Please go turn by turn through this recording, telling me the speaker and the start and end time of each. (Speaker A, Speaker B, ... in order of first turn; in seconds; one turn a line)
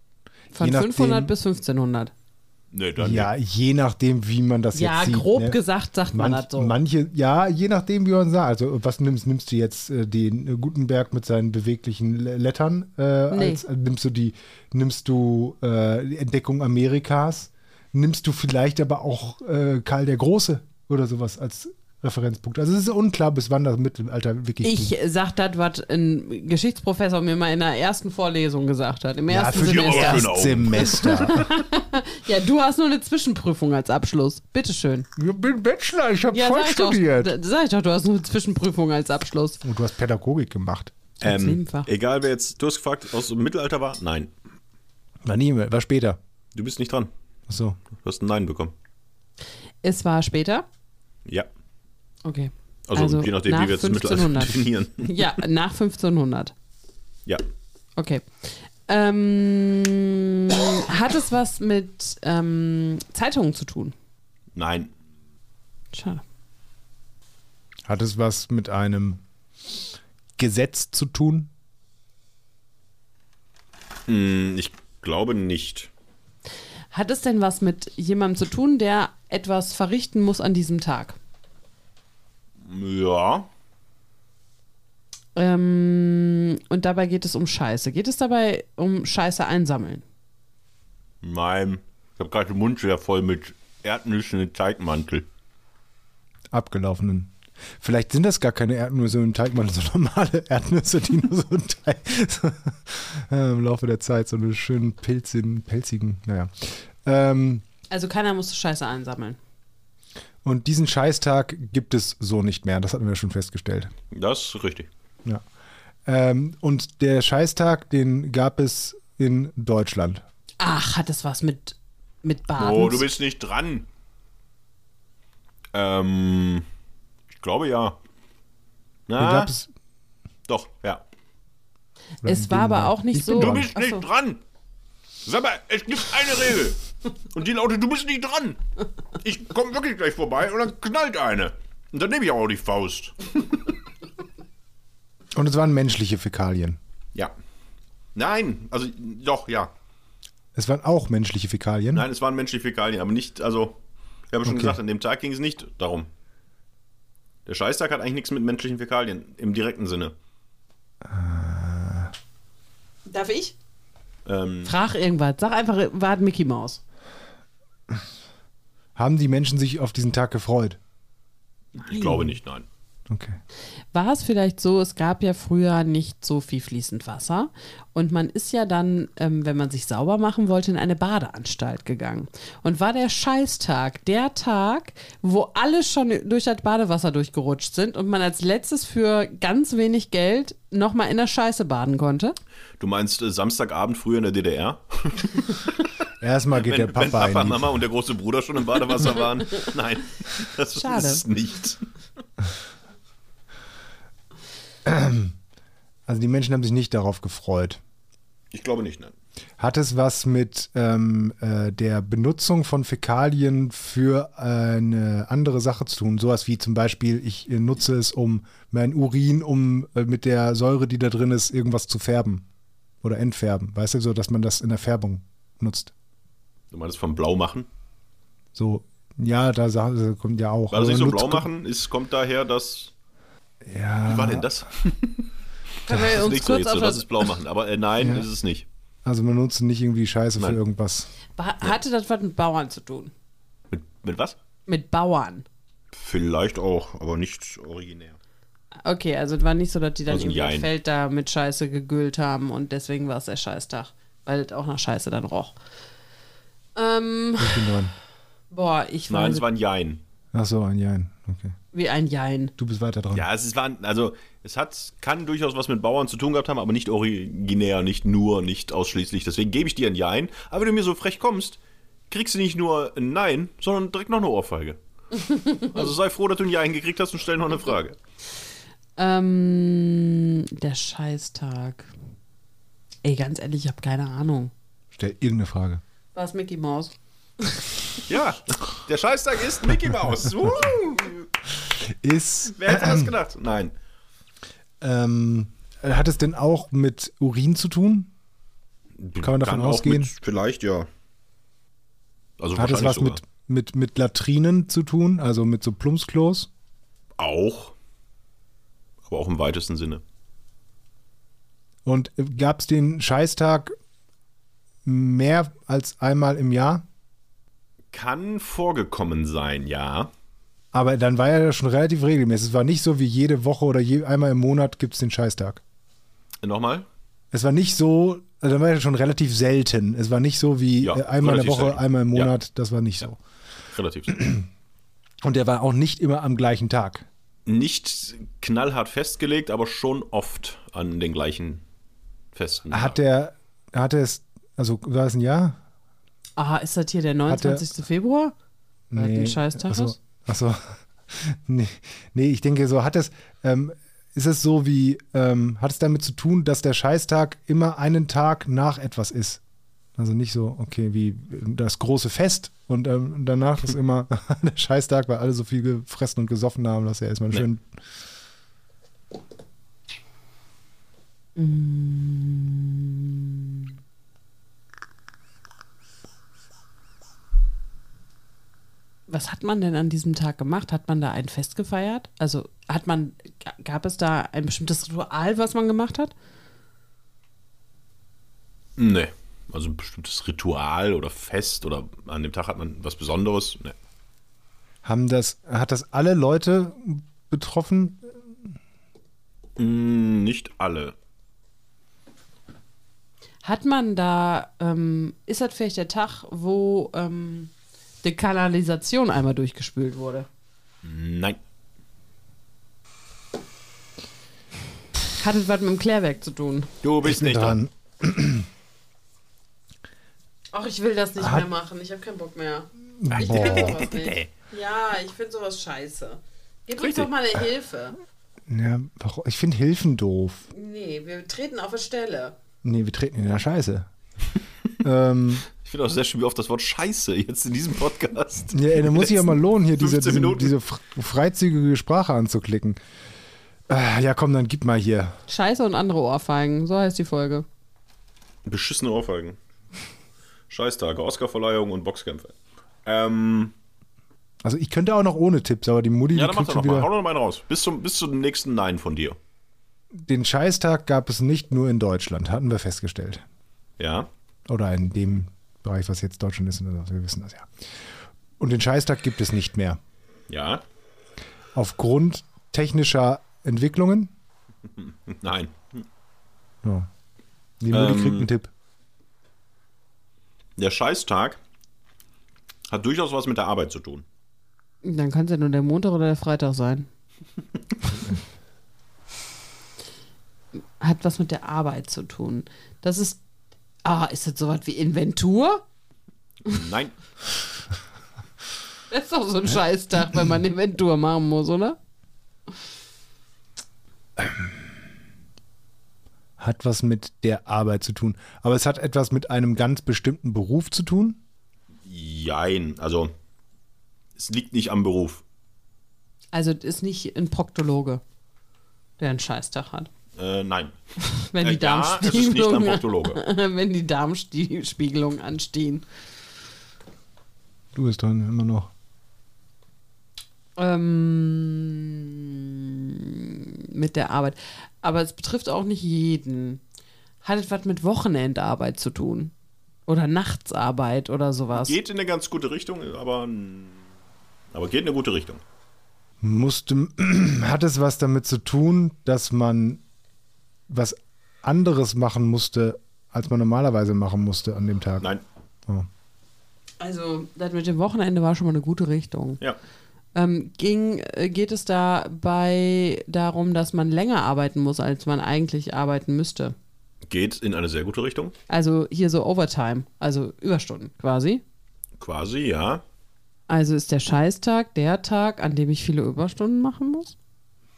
Speaker A: 0.5-2.1
Speaker B: 0.6-1.3
Speaker C: 2.7-3.3
Speaker B: 3.0-5.6
Speaker A: 4.7-6.7
Speaker B: 6.1-24.9
Speaker A: 13.3-13.6
Speaker A: 24.6-35.1
Speaker B: 29.3-31.5
Speaker C: 29.6-31.4
Speaker B: 35.2-37.3
Speaker A: 36.3-39.6
Speaker B: 39.6-41.0
Speaker A: 41.2-41.9
Speaker C: 41.2-44.3
Speaker B: 45.2-46.2
Speaker C: 46.5-47.1
Speaker B: 47.5-47.8
Speaker C: 48.0-48.7
Speaker A: 49.8-50.7
Speaker A: 52.2-56.5
Speaker C: 52.9-55.3
Speaker A: 58.0-63.9
Speaker C: 64.6-64.9
Speaker A: 65.9-66.2
Speaker B: 67.9-69.2
Speaker B: 70.4-71.5
Speaker C: 74.1-75.9
Speaker A: 76.9-81.2
Speaker C: 82.6-83.5
Speaker A: 85.4-90.0
Speaker C: 91.2-95.3
Speaker B: 96.5-107.7
Speaker A: 107.9-109.4
Speaker B: 110.4-113.9
Speaker C: 114.1-114.9
Speaker B: 116.1-120.2
Speaker A: 120.6-123.1
Speaker C: 122.6-123.9
Speaker C: 125.7-126.7
Speaker C: 127.3-128.0
Speaker C: 129.1-129.5
Speaker B: 129.2-129.7
Speaker C: 130.5-131.0
Speaker B: 132.2-133.7
Speaker A: 132.2-134.0
Speaker C: 133.3-134.4
Speaker C: 135.2-136.8
Speaker C: 137.3-138.6
Speaker C: 139.2-143.6
Speaker B: 145.3-146.8
Speaker C: 148.2-149.7
Speaker B: 150.6-152.1
Speaker C: 151.9-153.8
Speaker C: 154.3-156.1
Speaker B: 154.4-154.8
Speaker C: 157.5-160.1
Speaker B: 161.0-162.1
Speaker A: 163.1-163.6
Speaker C: 164.3-164.7
Speaker A: 164.7-166.8
Speaker B: 169.0-170.8
Speaker C: 171.8-172.7
Speaker A: 171.9-172.3
Speaker B: 173.1-173.4
Speaker A: 173.9-192.4
Speaker C: 192.8-195.7
Speaker B: 196.2-197.7
Speaker C: 196.6-201.8
Speaker A: 200.8-201.2
Speaker B: 204.8-205.4
Speaker B: 206.1-207.8
Speaker C: 208.5-209.1
Speaker B: 209.6-222.5
Speaker B: 223.0-225.9
Speaker C: 226.7-227.7
Speaker B: 228.5-231.5
Speaker C: 230.7-232.9
Speaker B: 233.6-234.5
Speaker C: 234.1-235.3
Speaker A: 235.8-237.3
Speaker C: 235.9-238.7
Speaker B: 238.0-238.3
Speaker B: 239.1-241.1
Speaker A: 241.4-243.1
Speaker C: 243.7-244.4
Speaker A: 244.7-245.4
Speaker C: 245.9-248.2
Speaker A: 248.8-255.5
Speaker C: 250.1-250.7
Speaker A: 256.8-257.8
Speaker B: 257.4-257.9
Speaker A: 258.5-259.4
Speaker C: 259.1-260.0
Speaker B: 260.3-261.6
Speaker A: 261.7-262.5
Speaker B: 262.6-263.3
Speaker C: 263.1-271.6
Speaker C: 272.1-274.8
Speaker C: 275.6-278.0
Speaker A: 279.0-281.9
Speaker A: 283.0-284.5
Speaker B: 284.9-285.8
Speaker A: 286.1-287.7
Speaker C: 288.1-291.3
Speaker B: 291.6-293.1
Speaker C: 292.5-293.7
Speaker B: 294.8-298.1
Speaker C: 299.0-300.9
Speaker B: 299.2-300.1
Speaker C: 302.4-303.2
Speaker B: 302.6-306.5
Speaker C: 307.2-307.8
Speaker C: 309.1-310.0
Speaker B: 311.9-313.7
Speaker B: 314.9-316.9
Speaker C: 317.9-320.1
Speaker B: 320.7-325.6
Speaker C: 326.4-326.9
Speaker B: 327.3-333.2
Speaker C: 330.8-332.3
Speaker C: 333.7-334.2
Speaker B: 334.1-334.5
Speaker B: 335.2-337.1
Speaker C: 337.5-341.6
Speaker C: 342.3-343.0
Speaker B: 342.7-345.6
Speaker A: 346.4-348.3
Speaker B: 347.3-347.6
Speaker B: 348.9-359.4
Speaker A: 349.0-350.0
Speaker B: 360.0-367.7
Speaker A: 371.4-373.7
Speaker A: 379.1-386.1
Speaker C: 388.8-393.8
Speaker B: 394.8-398.1
Speaker C: 399.6-400.9
Speaker A: 403.4-407.5
Speaker A: 408.0-410.3
Speaker C: 410.8-411.4
Speaker A: 415.1-416.7
Speaker C: 416.8-417.6
Speaker B: 417.0-418.5
Speaker A: 420.5-428.0
Speaker B: 421.2-421.5
Speaker B: 423.0-423.8
Speaker C: 423.1-424.3
Speaker C: 426.8-427.1
Speaker B: 428.5-430.5
Speaker A: 430.5-432.4
Speaker B: 432.6-433.9
Speaker B: 434.8-435.4
Speaker C: 435.6-440.6
Speaker B: 438.5-442.8
Speaker B: 443.7-445.2
Speaker A: 445.3-447.5
Speaker C: 448.5-449.4
Speaker C: 450.5-452.4
Speaker C: 452.9-453.5
Speaker B: 454.4-456.9
Speaker C: 456.1-459.2
Speaker B: 460.0-463.2
Speaker C: 463.8-464.1
Speaker B: 464.5-467.5
Speaker B: 468.4-469.8
Speaker C: 470.3-470.6
Speaker B: 471.6-474.1
Speaker C: 474.8-475.8
Speaker B: 476.6-476.9
Speaker B: 477.6-478.5
Speaker C: 477.7-478.3
Speaker C: 480.6-481.4
Speaker C: 482.7-484.1
Speaker A: 484.8-486.9
Speaker A: 490.8-493.2
Speaker A: 493.9-495.6
Speaker C: 496.4-496.9
Speaker A: 498.9-501.8
Speaker B: 506.4-511.2
Speaker C: 511.9-513.1
Speaker C: 514.2-515.2
Speaker A: 516.3-518.0
Speaker A: 519.0-519.9
Speaker C: 520.2-520.8
Speaker A: 521.0-525.9
Speaker C: 521.4-523.2
Speaker B: 527.8-528.7
Speaker A: 530.6-536.6
Speaker A: 537.2-539.3
Speaker A: 539.9-541.8
Speaker C: 541.5-543.8
Speaker C: 544.5-545.4
Speaker B: 546.2-549.8
Speaker B: 550.7-555.1
Speaker A: 556.8-559.4
Speaker A: 560.1-566.5
Speaker C: 567.1-568.3
Speaker A: 568.5-571.4
Speaker C: 572.0-572.8
Speaker A: 573.5-577.1